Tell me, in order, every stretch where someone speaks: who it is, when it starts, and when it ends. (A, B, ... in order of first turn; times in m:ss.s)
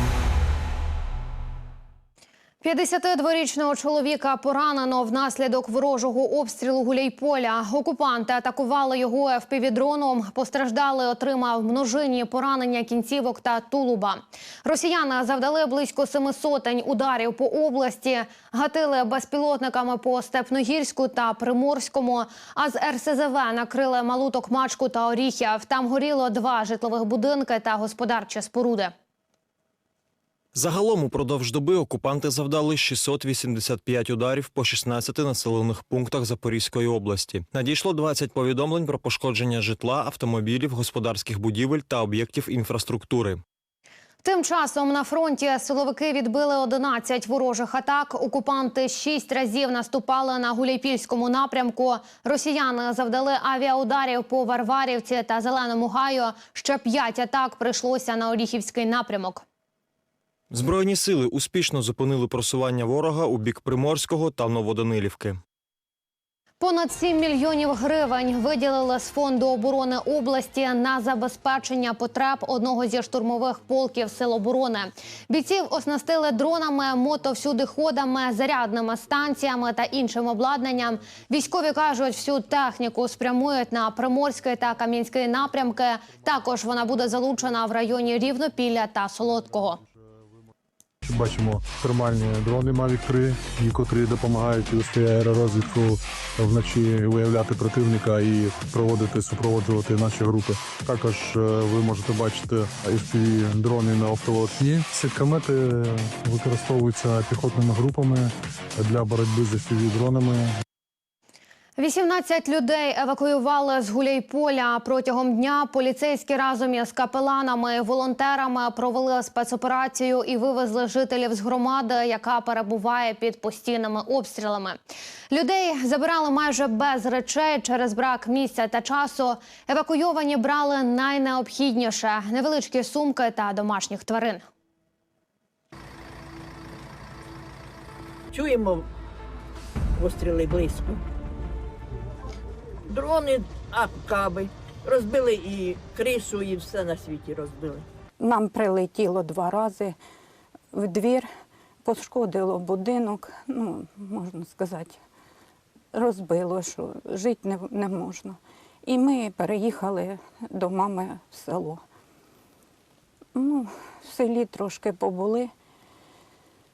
0:02.6-0:28.9 A
0:30.5-0:43.4 B
0:44.2-0:59.4 A
1:00.5-1:05.4 B
1:06.6-1:29.8 A
1:31.0-1:50.6 C
1:51.8-2:04.8 A
2:05.3-2:14.4 A
2:18.3-2:18.8 D
2:20.0-2:21.0 D
2:22.9-2:27.8 D
2:28.2-2:30.0 E
2:30.7-2:31.3 E
2:31.8-2:35.0 E
2:35.9-2:41.8 E
2:43.4-2:45.5 E